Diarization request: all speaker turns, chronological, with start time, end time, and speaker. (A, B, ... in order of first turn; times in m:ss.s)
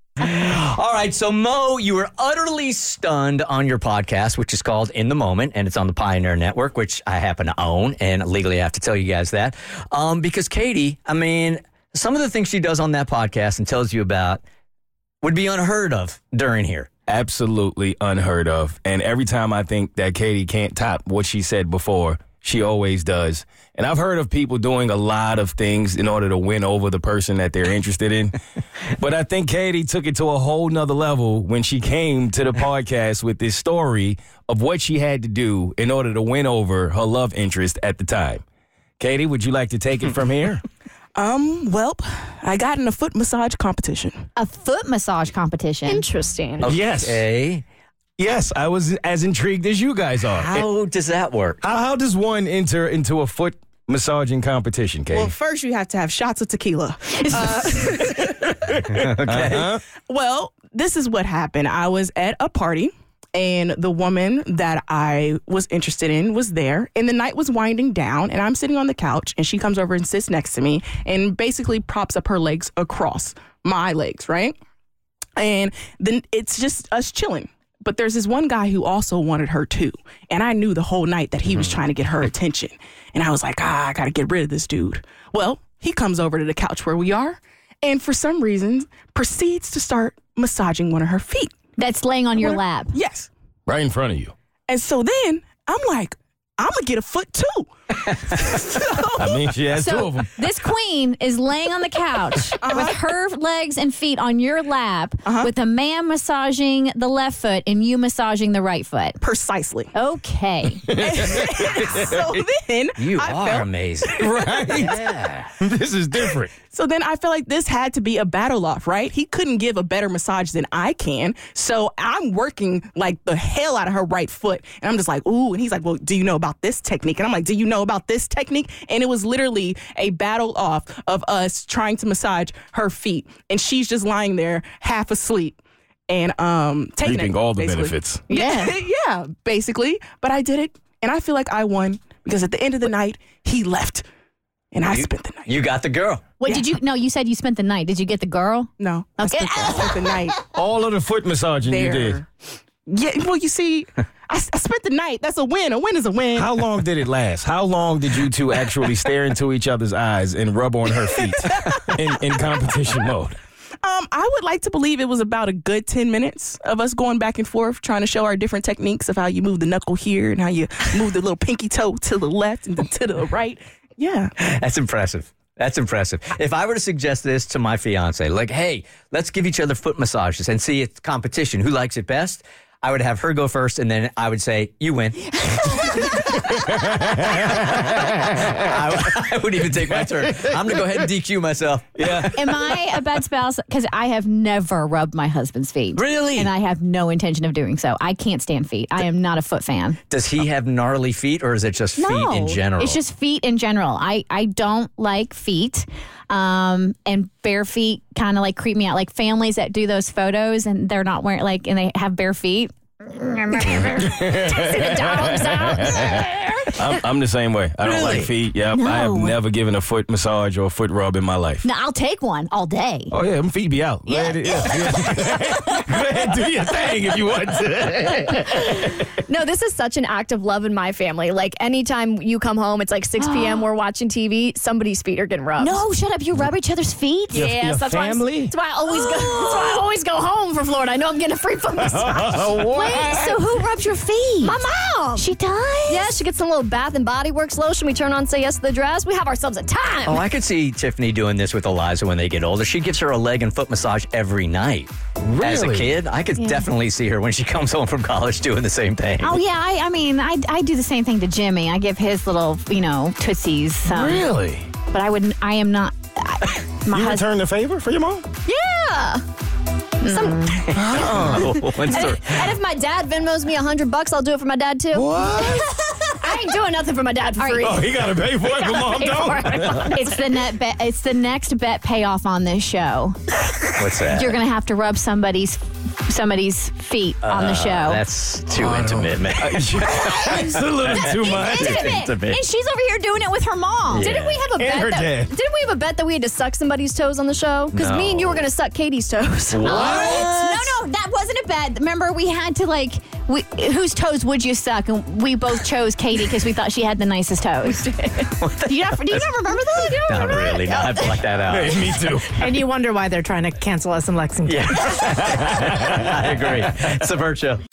0:00.2-0:14.4 A
0:15.2-0:16.9 A
0:17.1-0:28.4 B
0:28.9-0:38.4 B
0:39.0-0:40.6 B
0:41.2-0:44.2 C
0:44.4-0:46.0 D
0:45.9-0:46.7 E
0:46.6-0:47.2 B
0:46.6-0:47.6 A
0:48.2-0:50.7 B
0:50.5-0:51.6 A
0:51.6-0:55.3 B
0:55.1-0:58.5 C
0:58.9-0:59.7 A
0:58.9-0:59.8 B
1:00.1-1:14.6 C
1:15.4-1:31.5 C
1:31.8-1:32.9 D
1:32.4-1:33.3 C
1:33.6-1:34.3 B
1:34.7-1:39.5 C
1:39.2-1:40.3 B
1:39.7-1:49.2 D
1:42.6-1:43.0 C
1:45.2-1:45.5 C
1:49.2-1:49.9 C
1:49.9-1:50.9 D
1:50.8-1:52.4 B
1:50.9-1:54.9 C
1:53.0-1:54.1 A
1:54.1-1:56.5 B
1:54.7-1:55.4 A
1:56.3-2:24.0 C
2:17.0-2:18.2 B
2:18.3-2:18.8 D
2:24.7-2:25.6 C
2:24.9-2:26.2 A
2:26.4-2:30.1 D
2:26.4-2:26.7 C
2:28.8-2:30.4 C
2:30.5-2:32.2 B
2:31.6-2:32.3 C
2:32.9-2:36.5 C
2:36.3-2:43.4 B
2:41.4-2:41.8 C
2:43.8-2:54.3 C
2:54.4-3:12.7 A
3:06.5-3:07.1 B
3:08.0-3:08.2 B
3:12.0-3:12.3 B
3:12.3-3:20.0 D
3:16.0-3:16.5 A
3:20.1-3:23.0 A
3:22.0-3:34.3 D
3:33.8-3:36.2 B
3:34.3-3:36.6 E
3:36.8-3:41.6 B
3:37.8-3:38.3 A
3:38.6-3:39.4 D
3:41.6-3:43.1 D
3:43.1-3:48.9 B
3:49.3-3:55.8 E
3:53.2-3:53.7 D
3:55.6-3:57.5 D
3:57.3-3:58.5 B
3:57.3-4:02.6 E
4:01.8-4:03.4 B
4:02.7-4:04.6 D
4:04.4-4:05.2 E
4:05.1-4:06.1 D
4:05.9-4:10.2 E
4:10.0-4:19.4 A
4:15.2-4:16.0 B
4:19.2-4:24.3 D
4:23.9-4:24.7 B
4:24.9-4:27.2 D
4:26.9-4:28.2 B
4:28.4-4:29.2 E
4:30.0-4:30.7 D
4:30.0-4:31.3 E
4:30.7-4:32.1 B
4:30.8-4:32.5 A
4:31.8-4:40.0 E
4:34.9-4:35.7 B
4:37.4-4:37.7 D
4:37.6-4:40.0 B
4:39.7-4:43.2 D
4:43.7-4:44.4 A
4:44.0-4:48.0 D
4:47.2-4:52.4 A
4:48.5-4:51.9 B
4:50.0-4:50.3 D
4:50.9-4:54.2 D
4:53.9-4:54.4 A
4:54.0-5:00.1 E
4:54.4-4:55.3 B
4:57.7-4:58.4 A
4:59.5-5:00.3 B
4:59.6-5:11.1 D
4:59.7-5:00.7 A
5:08.4-5:09.3 A
5:09.9-5:11.9 A
5:11.5-5:12.6 B
5:12.4-5:14.6 F
5:14.4-5:17.6 A
5:15.0-5:16.6 B